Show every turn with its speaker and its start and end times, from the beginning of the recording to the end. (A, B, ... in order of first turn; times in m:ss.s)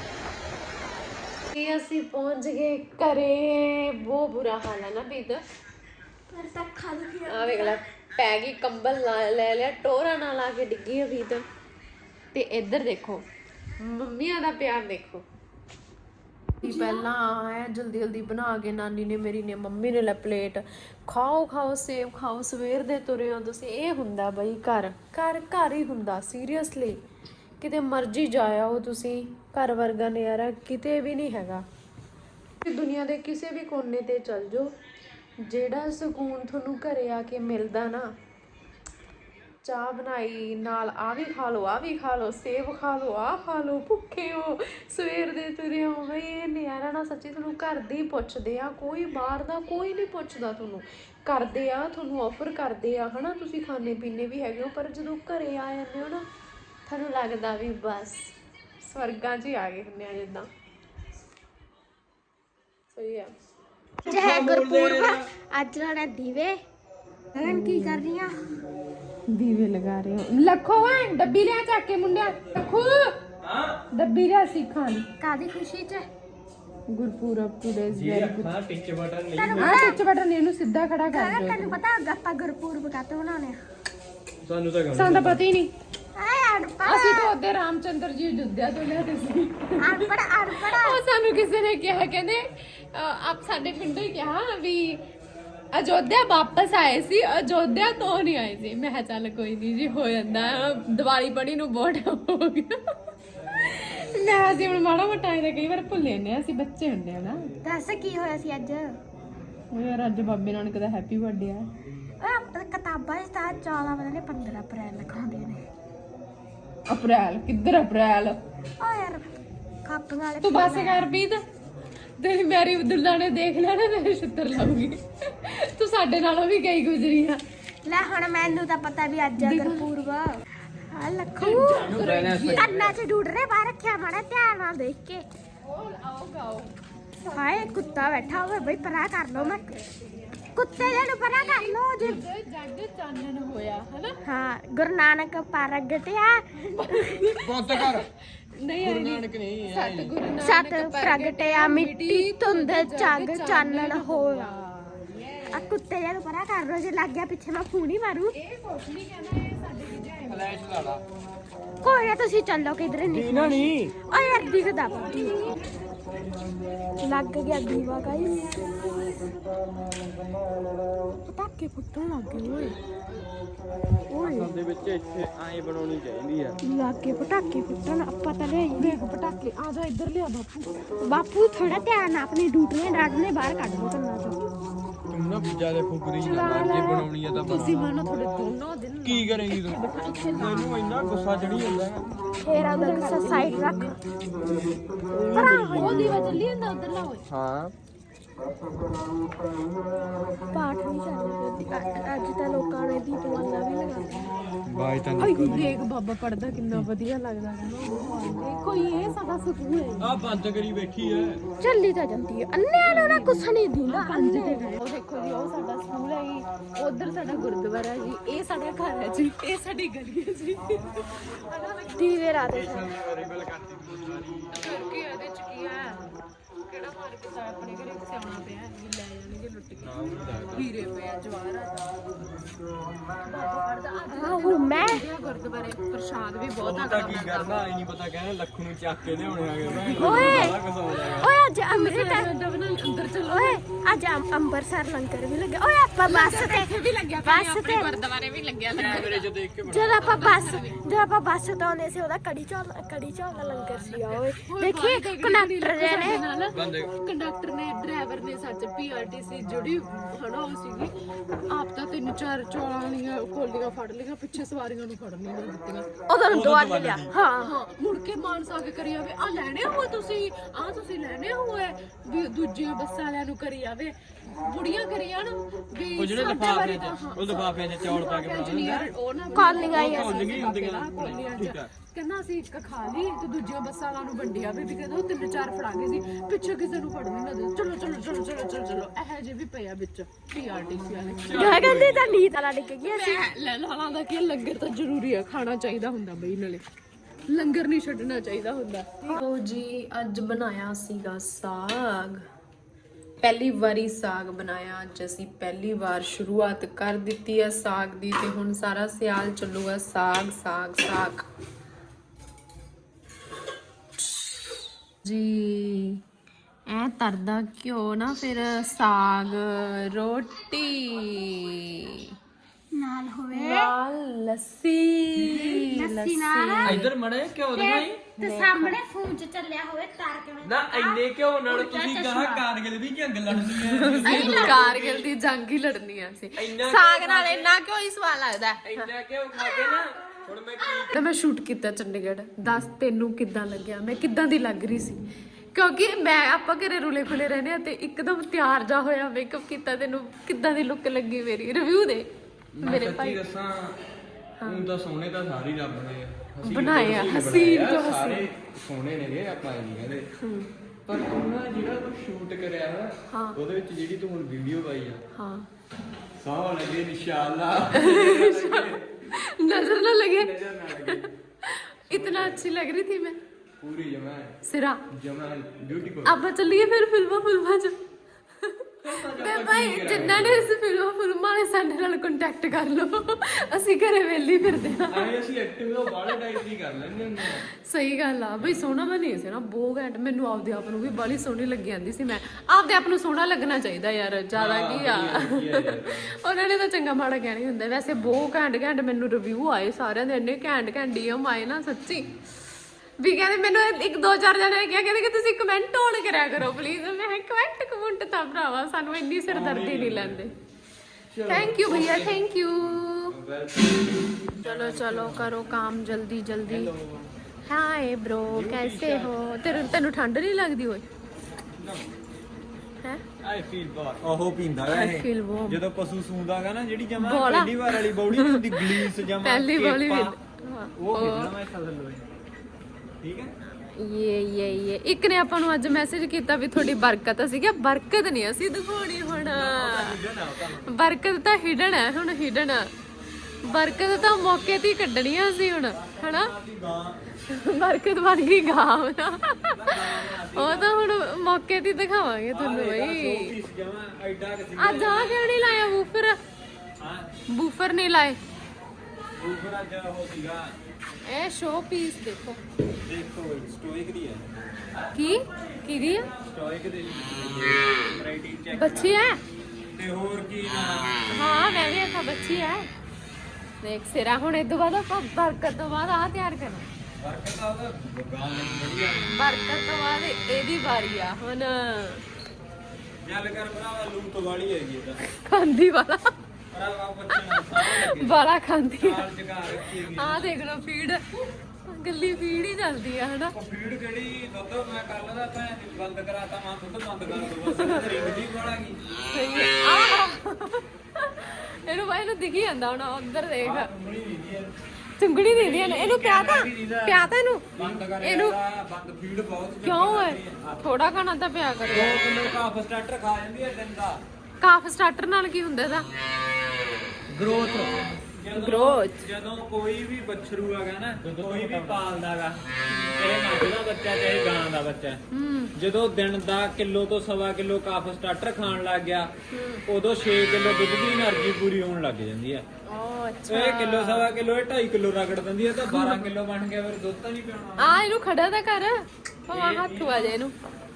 0:01.5-0:05.4 A
0:06.3-0:07.8 B
0:07.3-0:11.4 A
0:12.3-0:13.2 A
0:13.8-0:15.2 A
0:16.6-0:27.0 A
0:16.6-0:17.0 B
0:27.6-0:31.6 A
0:32.6-0:34.7 A
0:35.4-0:38.1 A
0:39.6-0:56.3 A
0:56.9-1:00.5 A
1:02.9-1:03.3 A
1:04.0-1:05.2 C
1:04.0-1:06.6 B
1:07.4-1:08.4 B
1:07.4-1:08.0 A
1:09.3-1:13.2 A
1:13.9-1:15.1 A
1:15.2-1:16.1 B
1:16.9-1:18.5 A
1:17.9-1:19.8 C
1:19.4-1:20.0 B
1:19.6-1:21.8 A
1:21.1-1:23.6 B
1:24.4-1:25.4 C
1:24.9-1:25.7 A
1:26.2-1:27.3 B
1:26.8-1:30.1 A
1:29.8-1:31.0 B
1:30.7-1:35.0 A
1:35.7-1:42.8 A
1:43.6-1:47.4 A
1:47.6-1:49.0 B
1:49.7-1:51.7 A
1:52.2-1:55.6 B
1:56.9-1:58.4 A
1:58.8-1:59.3 B
1:59.9-2:01.0 B
2:00.4-2:01.4 A
2:02.2-2:07.4 A
2:07.8-2:12.0 B
2:09.4-2:09.9 A
2:11.4-2:12.7 A
2:11.6-2:13.0 C
2:12.5-2:15.2 B
2:15.6-2:24.2 A
2:17.3-2:19.7 B
2:20.6-2:22.2 B
2:24.2-2:27.0 B
2:26.6-2:35.5 A
2:27.4-2:28.1 C
2:28.8-2:30.1 C
2:30.4-2:34.5 B
2:35.5-2:38.3 B
2:38.3-2:40.6 A
2:40.3-2:40.8 D
2:41.8-2:45.5 B
2:43.0-2:44.0 C
2:47.0-2:48.8 B
2:51.2-2:52.8 B
2:54.1-2:54.5 B
2:54.2-2:56.6 C
2:56.6-2:59.0 B
2:58.8-3:00.9 A
3:01.0-3:04.4 B
3:05.1-3:07.9 C
3:06.2-3:10.2 A
3:09.0-3:12.2 C
3:09.7-3:10.7 B
3:12.4-3:14.0 B
3:12.5-3:14.0 A
3:14.5-3:16.4 C
3:15.3-3:16.3 B
3:15.8-3:17.2 A
3:17.3-3:17.7 C
3:20.5-3:24.3 B
3:24.7-3:25.8 C
3:25.2-3:30.1 A
3:30.0-3:31.4 D
3:31.6-3:34.8 B
3:32.8-3:42.2 A
3:42.0-3:42.9 B
3:42.6-3:44.5 C
3:43.4-3:43.8 D
3:44.5-3:46.1 A
3:46.7-3:51.9 A
3:49.8-3:50.7 C
3:53.2-3:57.7 A
3:54.1-3:55.0 B
3:56.6-4:01.3 C
3:59.7-4:00.5 A
4:00.0-4:02.3 B
4:01.7-4:03.6 A
4:03.3-4:07.9 B
4:06.0-4:09.3 A
4:08.8-4:10.2 C
4:09.6-4:16.2 B
4:10.0-4:10.8 A
4:13.3-4:25.9 A
4:16.5-4:16.9 C
4:26.1-4:27.5 B
4:26.3-4:27.1 D
4:27.4-4:51.5 A
4:36.0-4:38.9 C
4:39.4-4:40.2 B
4:39.7-4:41.7 C
4:51.3-4:51.9 C
4:51.3-4:53.3 B
4:51.4-4:52.0 D
4:52.8-4:56.6 A
4:57.3-5:02.2 A
5:03.2-5:11.2 A
5:15.0-5:16.0 A
5:16.7-5:22.2 A
5:22.7-5:23.7 B
5:23.3-5:26.9 A
5:25.2-5:25.6 C
5:25.7-5:26.8 B
5:26.6-5:28.0 C
5:27.5-5:32.5 B
5:28.2-5:28.8 A
5:30.4-5:35.0 C
5:33.3-5:38.9 A
5:34.0-5:34.6 B
5:34.3-5:34.6 D
5:36.4-5:37.5 C
5:38.6-5:41.0 C
5:40.9-5:45.0 A
5:45.5-5:52.1 A
5:52.6-5:53.8 C
5:52.6-5:53.2 A
5:54.4-5:54.7 A
5:54.5-6:00.0 C
5:56.4-5:58.3 A
6:00.2-6:00.5 A
6:00.9-6:05.0 C
6:03.1-6:03.4 A
6:05.2-6:05.5 A
6:06.2-6:08.8 C
6:07.7-6:13.2 A
6:10.2-6:11.1 C
6:11.9-6:12.4 C
6:13.6-6:14.4 C
6:14.4-6:14.8 A
6:14.9-6:16.2 C
6:16.0-6:17.8 A
6:18.4-6:25.1 A
6:18.8-6:20.5 C
6:24.9-6:27.4 C
6:27.6-6:42.1 A
6:34.4-6:36.1 C
6:43.0-6:50.3 A
6:49.3-6:50.2 C
6:51.1-6:55.3 C
6:51.3-6:53.2 A
6:54.4-6:56.7 A
6:56.5-6:57.1 C
6:57.5-7:00.8 A
6:58.3-6:59.7 C
7:03.2-7:04.1 C
7:04.0-7:10.2 D
7:04.7-7:05.6 A
7:07.0-7:11.3 A
7:10.8-7:12.0 D
7:13.0-7:13.3 D
7:13.8-7:20.0 A
7:19.3-7:20.7 D
7:20.7-7:22.7 A
7:23.4-7:26.3 A
7:23.5-7:24.6 D
7:25.7-7:27.0 D
7:27.3-7:33.3 A
7:29.5-7:30.8 D
7:32.3-7:35.2 D
7:34.6-7:36.2 A
7:36.8-7:37.1 D
7:37.3-7:38.2 A
7:39.2-7:40.5 D
7:41.1-7:42.4 A
7:42.9-7:44.3 D
7:44.9-7:46.1 A
7:46.2-7:49.0 D
7:48.5-7:49.2 A
7:49.8-7:51.0 D
7:51.1-7:52.7 A
7:53.6-7:56.7 A
7:57.0-7:59.1 D
7:59.1-8:02.0 A
8:03.0-8:05.0 D
8:05.0-8:06.1 A
8:06.5-8:08.2 D
8:07.1-8:13.4 A
8:08.8-8:10.3 D
8:13.3-8:18.8 D
8:17.4-8:17.8 A
8:19.1-8:23.7 A
8:23.4-8:24.5 D
8:23.9-8:24.4 C
8:25.0-8:28.4 A
8:25.3-8:27.0 C
8:27.6-8:30.6 D
8:27.6-8:27.8 C
8:29.6-8:32.2 A
8:31.7-8:34.0 D
8:34.4-8:35.9 A
8:37.2-8:42.4 D
8:37.2-8:37.8 C
8:38.3-8:39.1 A
8:41.0-8:41.8 C
8:42.7-8:43.0 A
8:43.0-8:45.0 D
8:45.1-8:45.5 A
8:45.6-8:49.1 D
8:49.3-8:49.6 A
8:49.7-8:52.4 D
8:52.7-8:54.1 A
8:53.3-8:57.8 D
8:55.6-8:56.1 A
8:57.6-9:00.4 A
8:59.3-9:00.2 D